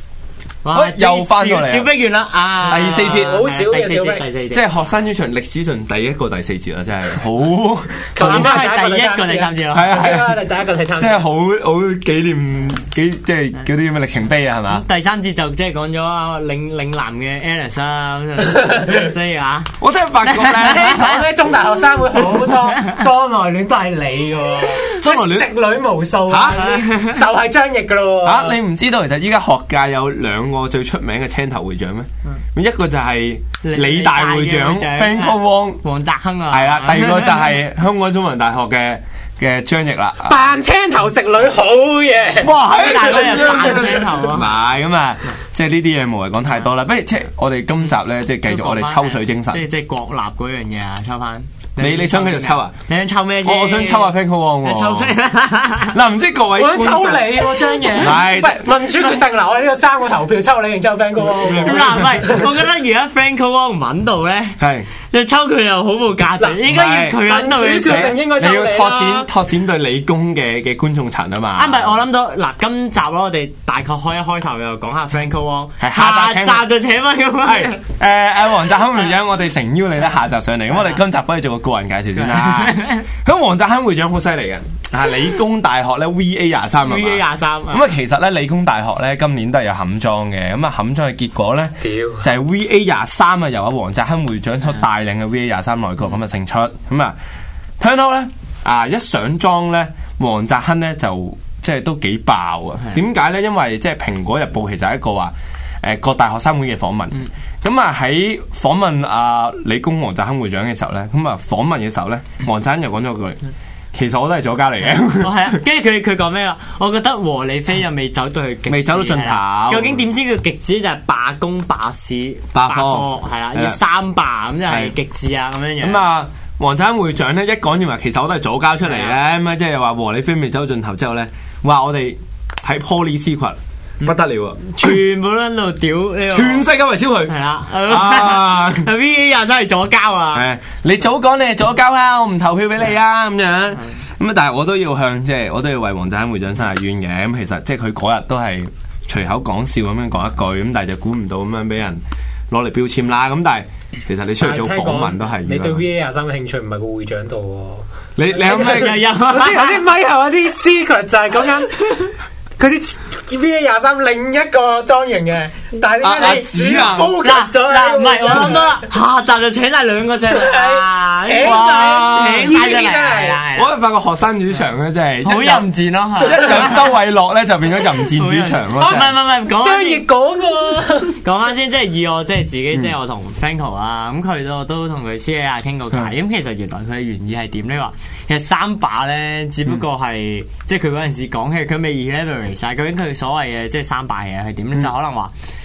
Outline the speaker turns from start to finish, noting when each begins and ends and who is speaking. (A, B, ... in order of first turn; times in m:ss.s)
0:00.6-0:04.9 A
0:00.7-0:01.9 B
0:02.7-0:03.4 B
0:02.9-0:04.3 C
0:04.5-0:08.6 B
0:08.0-0:11.2 C
0:08.2-0:10.0 A
0:09.7-0:10.4 B
0:11.0-0:14.8 B
0:14.7-0:19.7 A
0:18.5-0:19.0 C
0:19.8-0:21.2 B
0:20.2-0:21.2 A
0:20.8-0:28.6 C
0:24.9-0:25.5 B
0:26.3-0:26.6 B
0:26.6-0:27.2 A
0:28.2-0:35.8 B
0:33.6-0:37.6 A
0:36.5-0:40.5 B
0:40.2-0:42.5 C
0:42.4-0:49.6 B
0:42.6-0:44.6 A
0:48.4-0:56.0 A
0:51.8-0:52.7 B
0:53.4-0:55.2 B
0:55.9-0:58.7 B
0:56.6-1:02.5 C
1:01.4-1:02.1 B
1:01.5-1:08.2 A
1:04.6-1:04.9 B
1:06.6-1:07.2 B
1:07.2-1:09.3 C
1:07.9-1:12.0 B
1:11.6-1:17.8 A
1:15.8-1:16.7 B
1:17.4-1:37.2 B
1:22.2-1:23.0 A
1:26.8-1:27.9 A
1:31.8-1:32.2 C
1:37.8-1:53.4 B
1:53.9-1:55.6 B
1:55.2-2:06.1 A
1:58.7-2:00.0 B
2:02.5-2:03.8 B
2:04.7-2:05.0 B
2:05.8-2:15.0 B
2:08.8-2:09.2 A
2:14.0-2:16.7 A
2:16.3-2:17.4 B
2:17.3-2:20.5 A
2:17.9-2:18.9 B
2:20.3-2:35.8 B
2:34.4-2:37.8 C
2:38.2-2:39.0 B
2:38.4-2:48.8 C
2:38.4-2:39.8 A
2:46.0-2:46.5 A
2:46.0-2:47.2 B
2:47.0-2:53.7 A
2:50.3-2:53.4 C
2:51.4-2:52.8 B
2:53.5-2:59.2 B
2:55.2-2:57.0 A
2:57.9-3:00.0 A
2:58.8-3:01.2 C
3:01.1-3:15.3 A